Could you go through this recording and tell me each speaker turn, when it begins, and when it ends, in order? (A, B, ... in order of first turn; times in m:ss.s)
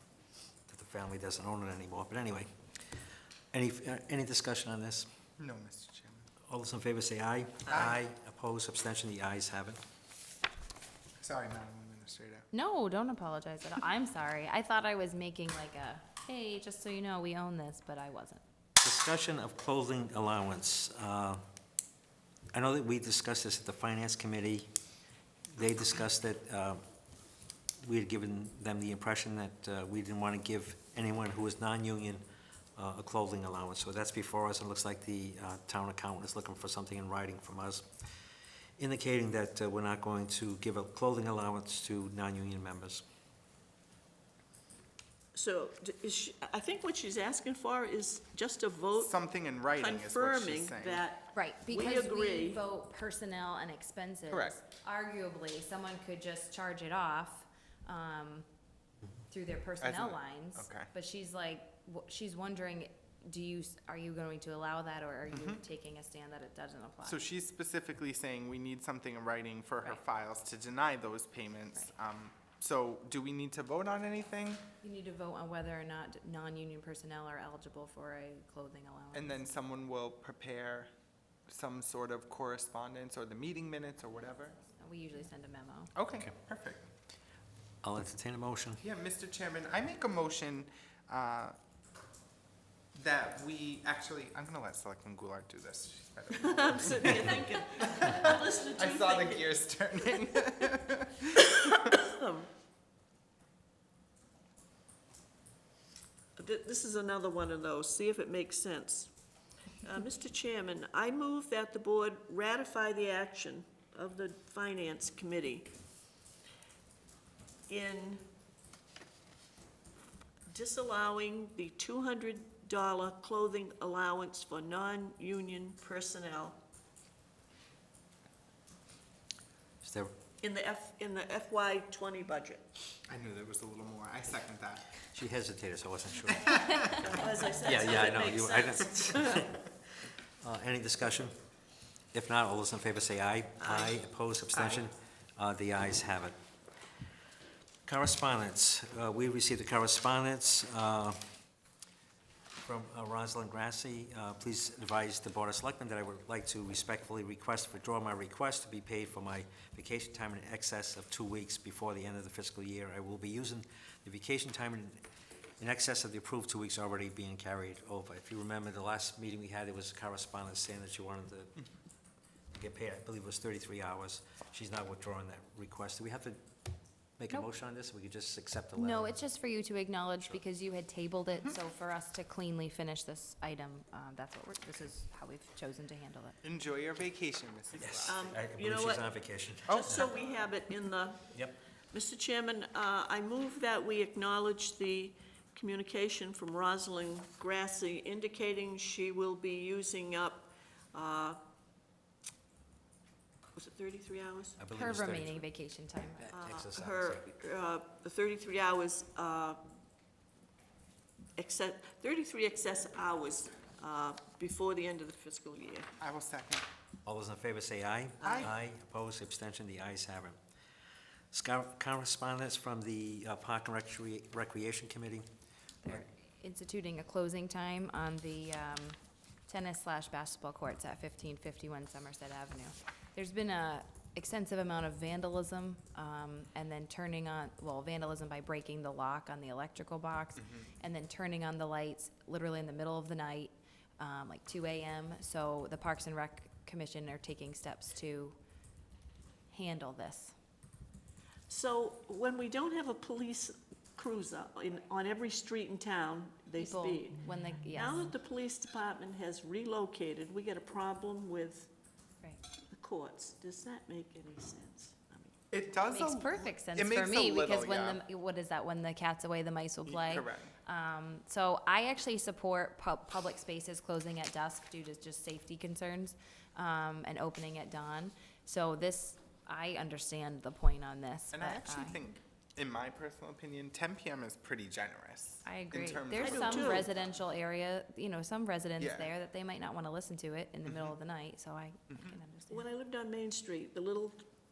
0:00.7-0:02.5 A
0:03.5-0:05.1 A
0:05.4-0:06.2 B
0:06.5-0:09.8 A
0:07.7-0:08.0 B
0:11.2-0:12.5 B
0:12.5-0:18.4 C
0:18.8-0:21.4 A
0:22.5-0:24.7 A
0:25.5-0:26.8 A
0:27.8-0:32.2 A
0:32.8-0:37.9 A
0:38.8-0:43.0 A
0:45.3-0:49.1 D
0:49.0-0:51.0 B
0:49.8-0:52.6 D
0:51.3-0:58.4 C
0:54.3-0:54.6 B
0:59.3-1:07.2 C
0:59.8-1:00.9 B
1:05.3-1:05.6 B
1:07.0-1:14.6 B
1:14.8-1:19.4 C
1:19.1-1:20.9 B
1:21.5-1:24.6 B
1:24.8-1:25.9 C
1:25.9-1:27.0 B
1:27.8-1:28.8 A
1:28.8-1:31.6 B
1:32.9-1:41.4 B
1:36.3-1:39.5 D
1:41.3-1:42.5 D
1:46.4-1:49.1 D
1:49.8-1:55.7 D
1:57.7-1:58.2 D
2:00.5-2:06.6 D
2:09.8-2:10.1 A
2:10.4-2:12.7 D
2:13.1-2:15.0 B
2:15.1-2:19.7 A
2:16.3-2:17.1 B
2:17.0-2:19.5 D
2:20.4-2:21.4 A
2:22.1-2:26.3 A
2:23.6-2:23.9 D
2:27.8-2:31.2 A
2:32.6-2:45.0 A
2:45.6-2:51.6 A
2:52.5-2:56.4 A
2:57.2-2:59.2 A
2:58.8-3:06.4 C
3:06.4-3:08.3 B
3:07.8-3:10.1 A
3:08.0-3:09.0 D
3:09.7-3:10.0 B
3:09.7-3:11.3 D
3:11.3-3:11.6 A
3:11.9-3:21.4 D
3:23.6-3:24.7 D
3:24.6-3:25.4 A
3:24.7-3:26.3 C
3:26.2-3:27.2 A
3:26.3-3:29.6 D
3:31.4-3:35.9 D
3:36.0-3:36.6 B
3:37.0-3:40.4 A
3:38.2-3:38.5 B
3:41.3-3:45.3 A
3:45.8-4:08.4 C
4:09.5-4:10.3 C
4:11.5-4:21.7 D
4:16.5-4:18.0 C
4:22.7-4:25.4 D
4:25.5-4:28.0 B
4:25.9-4:42.0 C
4:29.8-4:30.5 B
4:41.3-4:46.9 B
4:45.4-4:52.7 C
4:46.1-4:46.9 D
4:48.8-4:49.1 B
4:50.7-4:50.9 B
4:51.9-4:52.2 B
4:52.5-4:54.2 D